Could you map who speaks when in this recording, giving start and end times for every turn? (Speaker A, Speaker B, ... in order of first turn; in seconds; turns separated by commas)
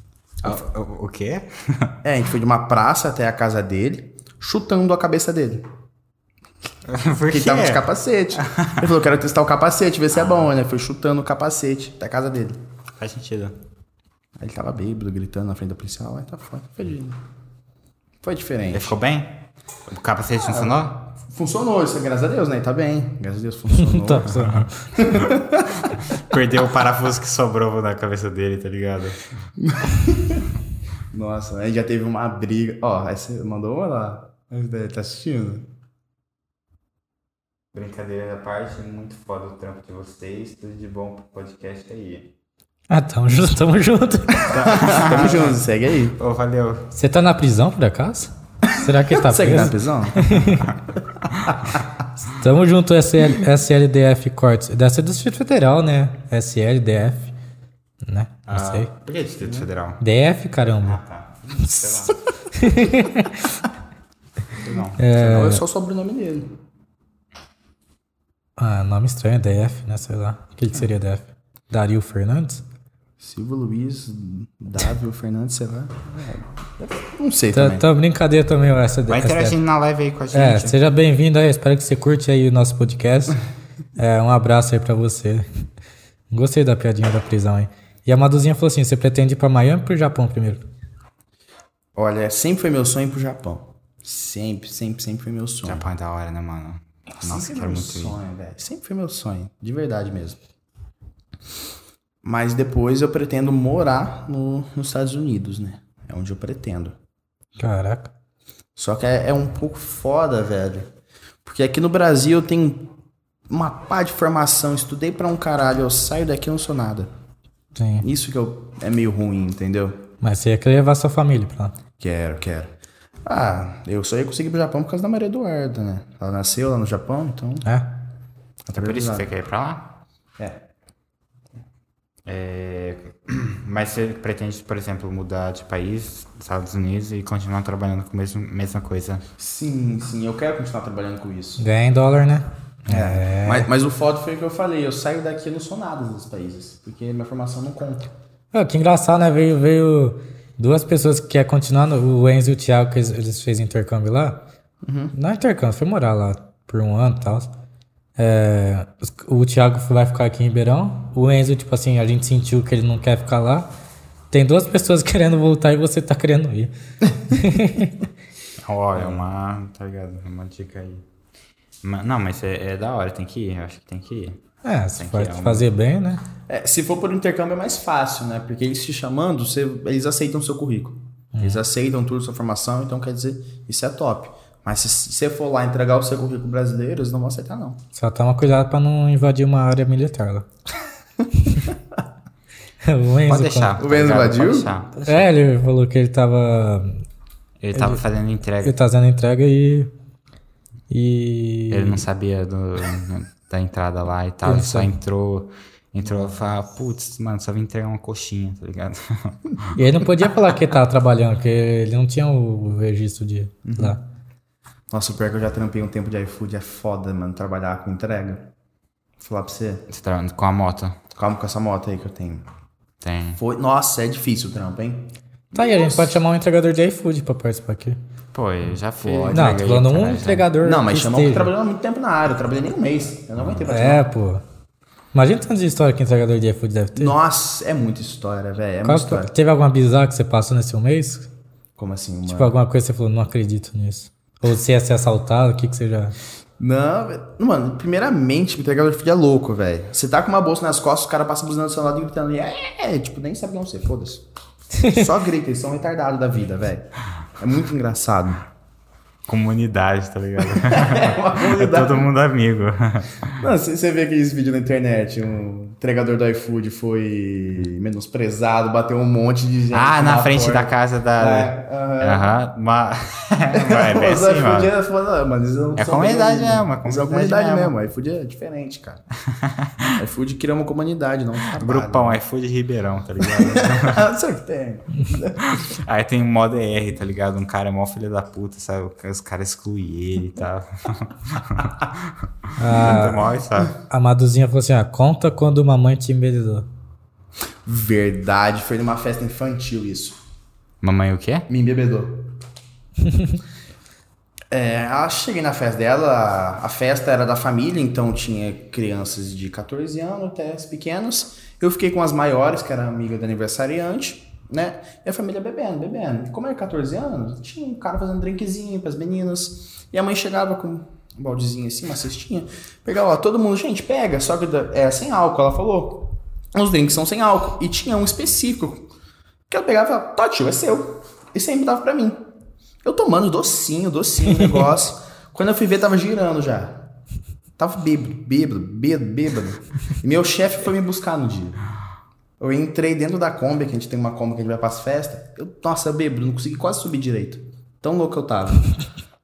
Speaker A: 0.4-1.9, Speaker B: 2.0-5.6, Speaker A: 6.9-7.8, Speaker B: 7.3-12.6, Speaker A: 8.4-8.8, Speaker A: 13.0-13.5, Speaker B: 14.4-17.2, Speaker B: 18.2-18.9, Speaker A: 18.7-21.1, Speaker B: 20.4-25.9, Speaker C: 23.7-24.7, Speaker A: 24.4-24.7, Speaker A: 25.9-29.2, Speaker B: 29.6-30.4, Speaker B: 31.1-35.7, Speaker A: 37.7-42.3, Speaker C: 42.9-44.8, Speaker A: 44.4-45.6, Speaker B: 44.6-46.1, Speaker A: 46.1-46.9, Speaker C: 46.9-50.7, Speaker B: 48.6-50.3, Speaker C: 52.2-57.3, Speaker C: 58.0-58.9, Speaker A: 58.5-60.0, Speaker B: 59.4-59.7, Speaker C: 60.0-61.0, Speaker A: 60.8-62.2, Speaker C: 61.6-63.6, Speaker A: 64.5-65.4, Speaker C: 65.0-65.6, Speaker B: 65.2-66.5, Speaker C: 68.6-72.6, Speaker B: 73.2-77.8, Speaker C: 77.5-79.6, Speaker A: 79.1-80.8, Speaker C: 80.3-83.4, Speaker C: 84.0-85.5, Speaker C: 86.3-90.6, Speaker B: 91.9-95.8, Speaker A: 95.6-98.2, Speaker B: 97.1-100.4, Speaker B: 102.2-107.0, Speaker C: 107.6-108.1, Speaker B: 108.8-110.9, Speaker B: 111.4-112.9, Speaker B: 113.5-117.1, Speaker C: 117.8-118.0, Speaker B: 118.0-120.0, Speaker C: 120.2-121.7, Speaker B: 122.0-127.7, Speaker C: 127.6-127.9, Speaker B: 128.7-129.3, Speaker A: 128.7-130.0, Speaker B: 130.4-130.6, Speaker A: 132.2-139.2, Speaker B: 139.4-141.6, Speaker C: 141.6-143.7, Speaker B: 142.9-148.1, Speaker C: 148.5-154.4, Speaker B: 154.8-155.1, Speaker C: 155.1-157.5, Speaker C: 158.2-163.7, Speaker C: 164.3-168.1, Speaker A: 168.6-171.0, Speaker A: 171.8-174.4, Speaker C: 174.6-176.2, Speaker A: 174.9-175.7, Speaker B: 176.5-187.8, Speaker C: 181.3-181.6, Speaker C: 187.9-190.4, Speaker C: 191.4-191.7, Speaker C: 192.8-193.8, Speaker A: 193.2-195.2, Speaker B: 193.8-194.7, Speaker C: 195.0-197.0, Speaker A: 197.6-198.8, Speaker C: 197.7-198.0, Speaker C: 198.6-199.9, Speaker C: 200.9-202.0, Speaker A: 201.7-209.8, Speaker C: 204.4-204.9, Speaker C: 209.7-214.0, Speaker B: 213.6-214.0, Speaker B: 214.9-218.5, Speaker B: 219.2-219.8, Speaker A: 219.9-221.0, Speaker B: 221.1-222.4, Speaker A: 223.0-223.4, Speaker B: 223.4-226.2, Speaker C: 225.5-228.0, Speaker A: 228.3-230.5, Speaker B: 229.0-229.7, Speaker C: 229.3-231.5, Speaker B: 230.6-234.1, Speaker C: 233.7-234.4, Speaker C: 235.1-237.2, Speaker B: 236.9-239.3, Speaker C: 238.8-241.3, Speaker B: 241.8-242.5, Speaker C: 242.3-246.2, Speaker B: 246.6-254.2, Speaker C: 254.8-255.1, Speaker B: 254.9-258.4, Speaker A: 259.3-263.4, Speaker B: 260.4-262.1, Speaker B: 263.4-272.4, Speaker A: 269.7-274.7, Speaker B: 273.5-279.0, Speaker A: 275.8-277.7, Speaker A: 279.3-279.9, Speaker B: 279.9-282.2, Speaker A: 281.5-284.0, Speaker B: 283.2-285.7, Speaker A: 285.5-293.8, Speaker C: 292.6-296.7, Speaker B: 297.6-300.2, Speaker A: 300.8-301.5, Speaker B: 301.5-302.3, Speaker C: 303.1-303.4, Speaker B: 304.5-328.9, Speaker B: 329.5-332.2, Speaker B: 332.8-336.9, Speaker B: 337.6-341.6, Speaker B: 342.4-348.7